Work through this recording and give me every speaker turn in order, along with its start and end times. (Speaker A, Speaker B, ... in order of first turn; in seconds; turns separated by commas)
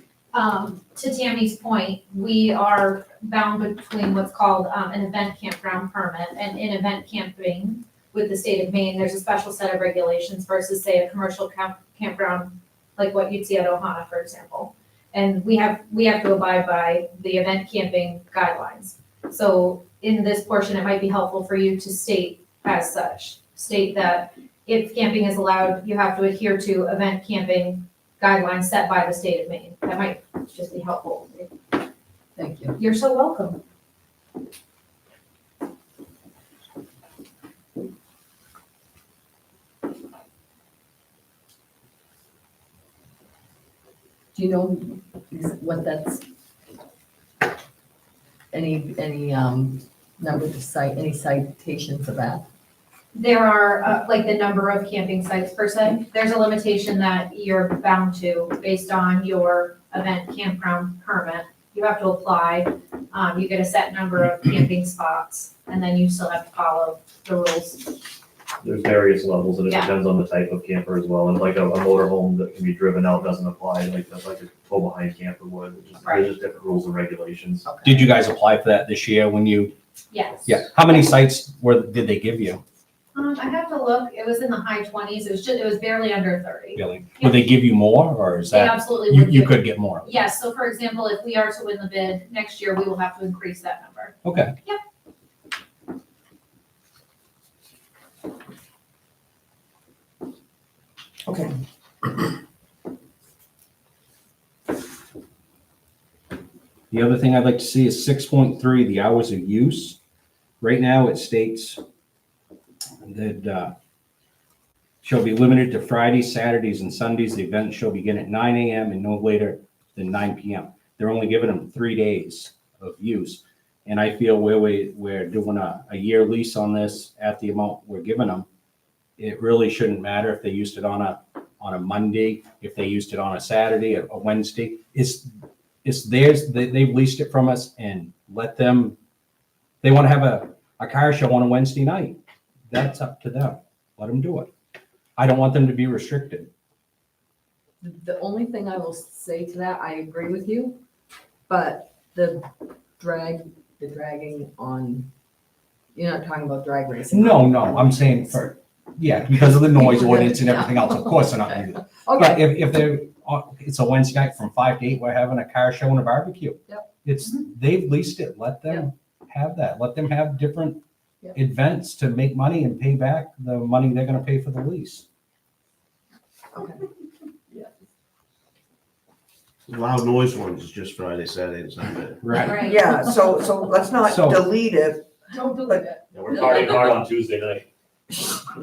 Speaker A: 0.3-31.5, Speaker B: 32.4-32.8, Speaker A: 32.8-33.6, Speaker B: 44.3-46.2, Speaker B: 48.5-52.4, Speaker A: 53.1-68.0, Speaker C: 68.6-77.7, Speaker A: 69.7-69.9, Speaker A: 76.0-76.3, Speaker B: 77.6-78.1, Speaker D: 77.8-79.7, Speaker A: 80.1-80.6, Speaker D: 80.5-82.6, Speaker A: 83.1-87.5, Speaker D: 86.7-90.1, Speaker A: 88.5-94.8, Speaker D: 94.2-94.5, Speaker E: 101.3-101.5, Speaker D: 106.9-110.0, Speaker D: 110.6-111.8, Speaker D: 113.0-113.7, Speaker D: 115.0-128.5, Speaker D: 129.2-135.3, Speaker D: 135.8-138.9, Speaker D: 139.8-142.2, Speaker D: 142.7-144.5, Speaker D: 145.2-146.5, Speaker B: 147.8-150.8, Speaker B: 151.5-155.1, Speaker B: 155.9-158.3, Speaker D: 157.1-170.8, Speaker B: 159.3-162.6, Speaker D: 171.3-175.0, Speaker F: 179.7-182.3, Speaker D: 182.2-182.7, Speaker A: 182.3-182.8, Speaker E: 182.6-185.1, Speaker D: 184.1-184.5, Speaker B: 185.3-186.8, Speaker C: 186.1-187.6